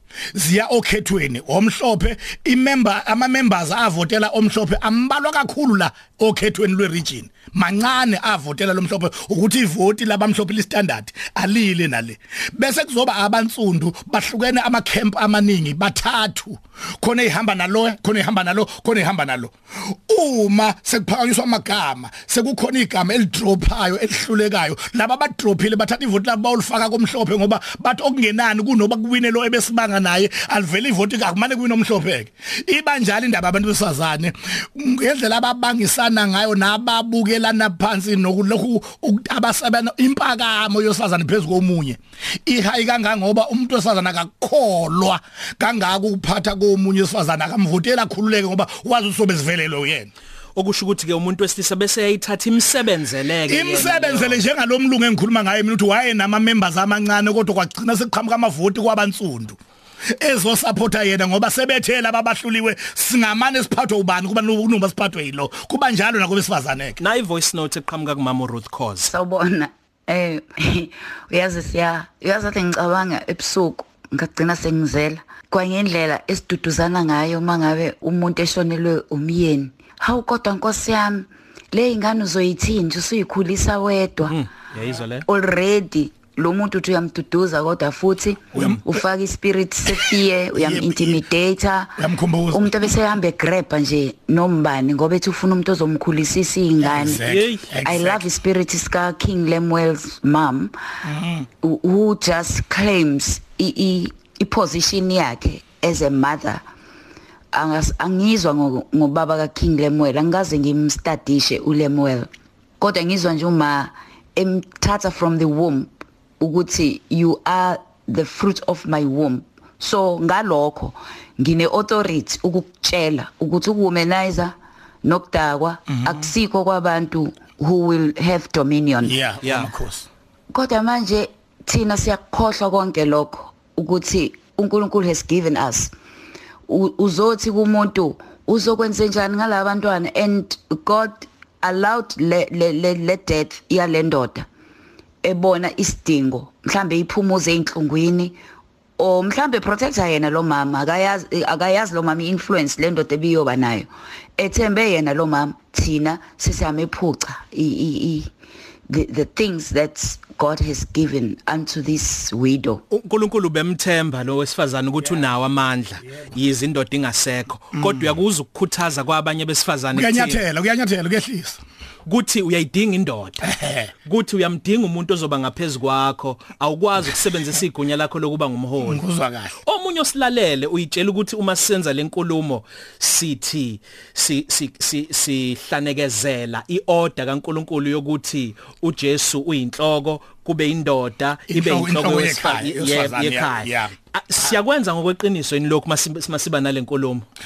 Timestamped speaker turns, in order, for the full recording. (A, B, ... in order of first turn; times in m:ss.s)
0:00.3-0:50.1 A
0:50.6-0:54.4 B
0:53.5-0:59.6 A
1:00.2-1:07.0 A
1:07.0-1:09.1 B
1:09.1-1:24.4 C
1:24.2-1:25.2 B
1:25.2-1:32.0 C
1:28.5-1:29.0 A
1:28.5-1:28.8 B
1:30.5-1:31.2 A
1:32.0-1:32.9 A
1:32.5-1:37.2 C
1:36.8-1:38.2 A
1:37.2-1:37.7 B
1:37.8-1:40.7 C
1:41.0-1:41.5 A
1:41.6-1:46.6 C
1:47.5-2:09.1 C
2:05.9-2:06.3 A
2:09.0-2:10.1 A
2:09.4-2:09.7 B
2:10.5-2:15.9 C
2:16.7-2:24.5 C
2:25.2-2:28.4 C
2:29.0-2:38.3 C
2:38.9-2:42.8 C
2:42.9-2:50.4 B
2:47.7-2:48.1 A
2:49.9-2:51.6 A
2:52.1-2:53.5 B
2:53.4-2:53.9 A
2:54.0-2:59.0 B
2:58.8-2:59.6 A
2:59.6-3:17.2 B
3:11.5-3:13.9 A